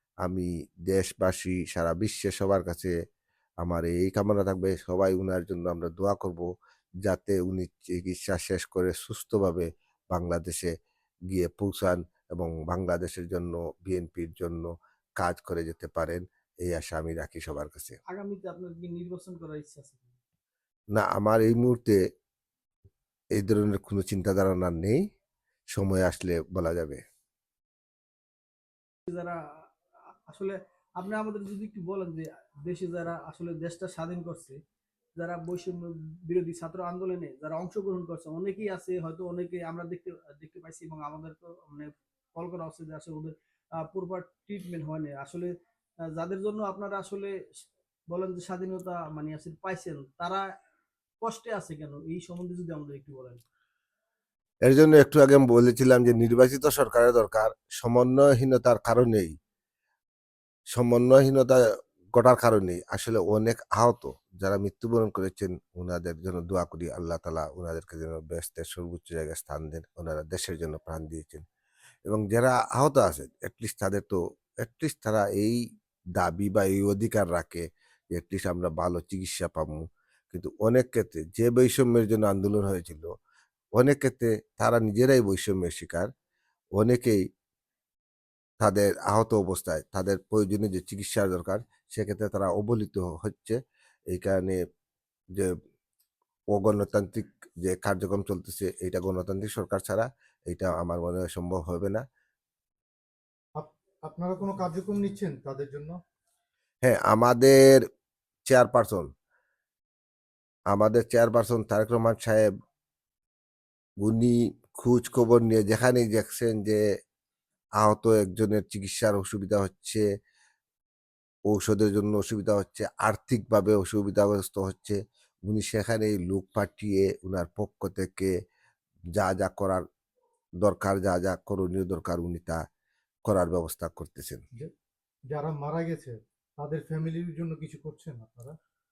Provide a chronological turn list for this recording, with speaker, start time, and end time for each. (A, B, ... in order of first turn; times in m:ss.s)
0:00.2-0:02.9 A
0:03.6-0:06.5 A
0:07.0-0:10.7 A
0:11.3-0:18.0 A
0:18.1-0:20.2 B
0:20.9-0:22.0 A
0:23.4-0:25.0 A
0:25.7-0:27.0 A
0:29.1-0:29.4 B
0:30.3-0:34.6 B
0:35.2-0:45.5 B
0:46.1-0:47.3 B
0:48.1-0:50.4 B
0:51.2-0:53.4 B
0:54.6-0:59.3 A
1:00.7-1:01.6 A
1:02.1-1:11.4 A
1:12.0-1:15.6 A
1:16.2-1:23.1 A
1:23.8-1:26.1 A
1:26.8-1:27.2 A
1:28.6-1:33.6 A
1:34.1-1:34.6 A
1:36.5-1:42.0 A
1:43.6-1:46.0 C
1:46.8-1:47.8 A
1:48.5-1:49.1 A
1:50.7-1:52.5 A
1:54.0-1:56.8 A
1:57.8-2:00.0 A
2:01.5-2:08.3 A
2:09.2-2:09.8 A
2:10.6-2:12.6 A
2:13.2-2:14.4 A
2:15.3-2:18.6 C